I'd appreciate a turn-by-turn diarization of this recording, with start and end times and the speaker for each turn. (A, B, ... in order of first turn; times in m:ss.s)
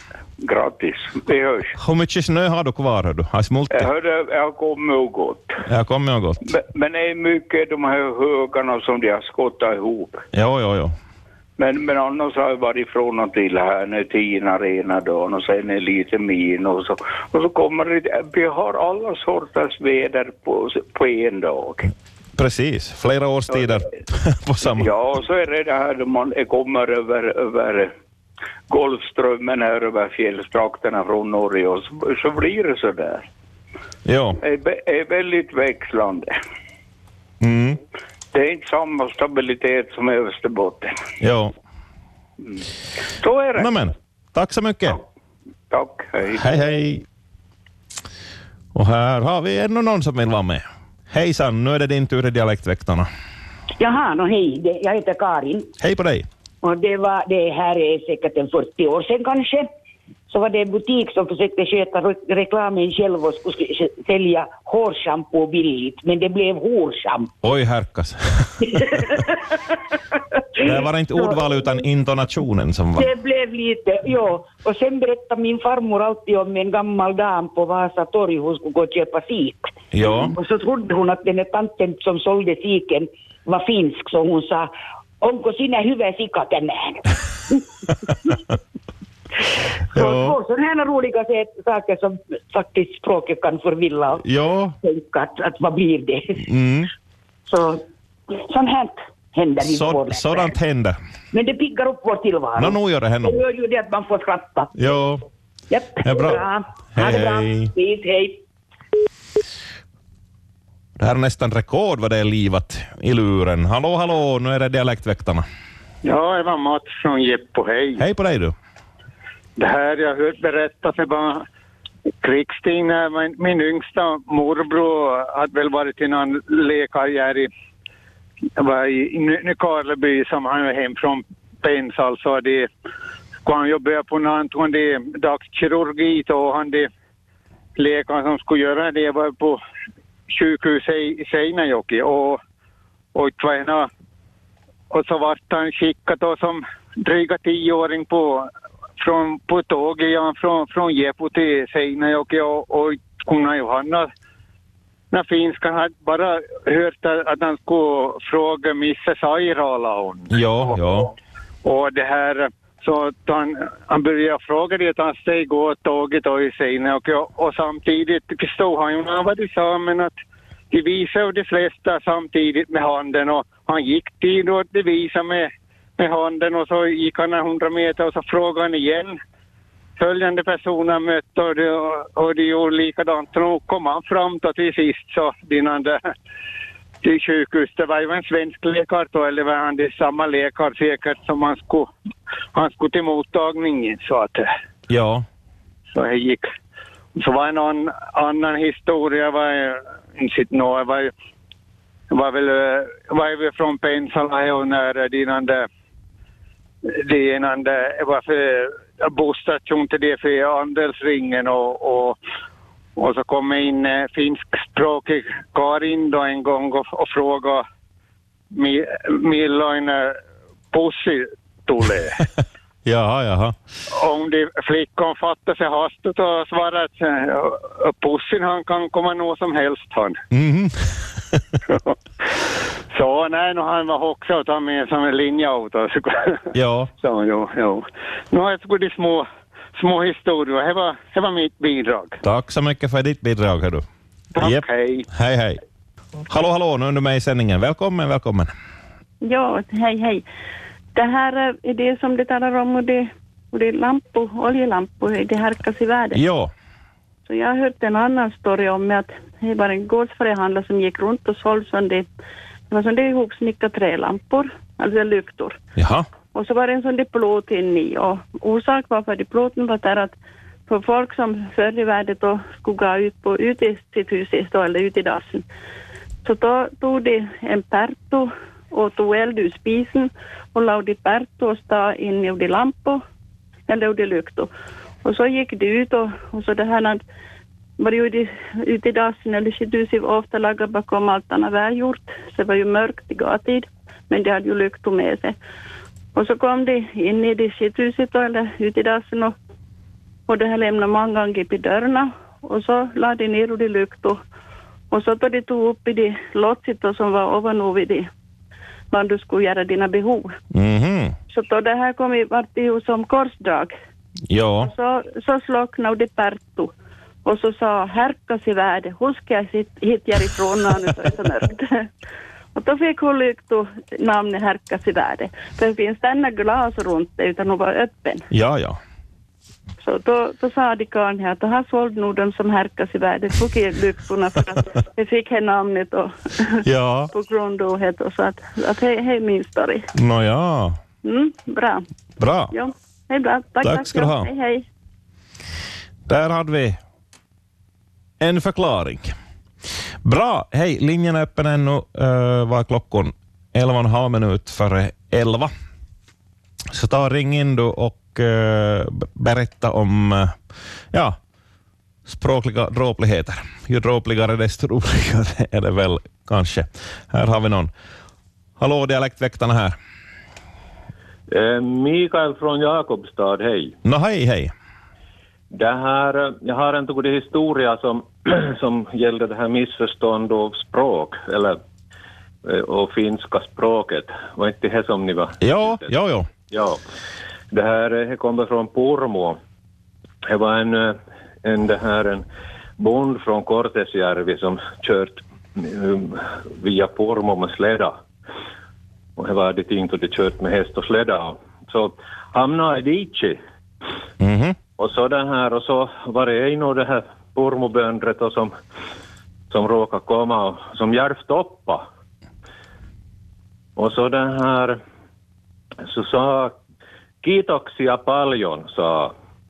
0:00.4-0:01.8 A
0:01.8-0:03.9 B
0:03.7-0:05.6 A
0:05.6-0:06.4 B
0:06.5-0:10.2 A
0:10.3-0:10.9 B
0:11.6-0:21.9 A
0:22.4-0:24.9 B
0:24.7-0:27.9 A
0:28.7-0:33.3 A
0:34.0-0:34.4 B
0:34.4-0:36.3 A
0:37.4-0:37.8 B
0:38.3-0:40.9 A
0:41.2-0:41.5 B
0:43.2-0:43.9 A
0:43.6-0:45.0 B
0:45.7-0:46.5 A
0:46.4-0:47.0 B
0:48.7-0:53.1 B
0:53.8-0:55.7 C
0:55.8-0:56.2 B
0:56.6-0:59.7 C
1:00.3-1:07.3 C
1:07.4-1:09.0 B
1:08.7-1:09.2 C
1:10.6-1:13.1 B
1:13.0-1:27.0 C
1:19.9-1:20.3 B
1:29.9-1:34.2 C
1:29.9-1:30.4 B
1:34.2-1:34.8 B
1:34.8-1:36.4 C
1:36.4-1:36.9 B
1:37.5-1:40.5 C
1:39.7-1:41.0 B
1:41.3-1:44.7 C
1:42.6-1:43.4 B
1:44.7-1:45.2 B
1:45.7-1:48.4 C
1:46.0-1:47.7 B
1:51.0-1:55.4 B
1:56.0-1:58.0 D
1:58.0-1:58.5 B
1:59.6-2:01.4 D
2:02.2-2:07.5 D
2:08.6-2:12.7 D
2:13.4-2:16.9 D
2:17.8-2:19.6 D
2:20.3-2:22.4 D
2:23.1-2:23.9 D
2:24.9-2:34.1 D
2:35.1-2:40.3 D
2:40.3-2:41.1 B
2:41.6-2:50.1 D
2:50.7-2:59.2 D
3:00.0-3:06.0 D
3:07.0-3:11.9 D
3:12.5-3:14.5 D
3:14.9-3:15.2 B
3:15.9-3:16.4 D
3:17.2-3:21.1 D
3:22.1-3:25.7 D
3:26.8-3:32.2 D
3:33.0-3:37.6 D
3:38.5-3:40.2 D
3:40.7-3:42.2 D
3:42.8-3:43.5 B
3:43.9-3:50.2 D
3:50.3-3:51.4 B
3:52.9-4:02.2 D
3:56.5-3:56.9 B
4:02.2-4:03.8 B
4:04.4-4:05.6 B
4:04.4-4:05.0 D
4:06.3-4:08.5 B
4:09.2-4:10.2 E
4:10.9-4:16.2 E
4:16.1-4:16.5 B
4:17.2-4:22.1 E
4:22.7-4:25.6 E
4:25.8-4:26.0 B
4:26.3-4:30.1 E
4:30.7-4:35.4 E
4:36.2-4:43.0 E
4:43.7-4:44.5 E
4:45.0-4:47.0 E
4:47.8-4:55.4 E
4:56.1-4:59.3 E
5:00.3-5:04.2 E
5:04.9-5:08.1 E
5:08.9-5:10.3 E
5:10.5-5:11.1 B
5:11.3-5:13.7 E
5:14.3-5:14.7 B
5:14.6-5:16.7 E
5:17.2-5:21.9 E
5:22.5-5:28.3 E
5:28.3-5:28.8 B
5:29.8-5:36.6 E
5:36.6-5:37.1 B
5:37.1-5:39.9 E
5:39.9-5:40.8 B
5:41.0-5:41.8 E
5:42.2-5:42.5 B
5:42.5-5:44.6 E
5:43.6-5:44.3 B
5:46.1-5:46.8 B
5:48.2-5:49.1 B
5:50.0-5:55.5 B
5:56.7-6:00.4 B
6:02.1-6:07.7 B
6:08.6-6:09.8 B
6:11.3-6:13.8 F
6:13.8-6:14.5 B
6:15.5-6:21.6 F
6:22.4-6:26.8 F
6:25.4-6:26.3 B
6:27.5-6:29.4 F
6:30.2-6:32.2 F
6:32.8-6:38.0 F
6:39.2-6:43.4 F
6:44.2-6:44.6 B
6:44.8-6:48.5 F
6:49.5-6:51.8 F
6:53.8-6:54.8 F
6:55.8-6:56.6 F
6:57.2-6:59.1 F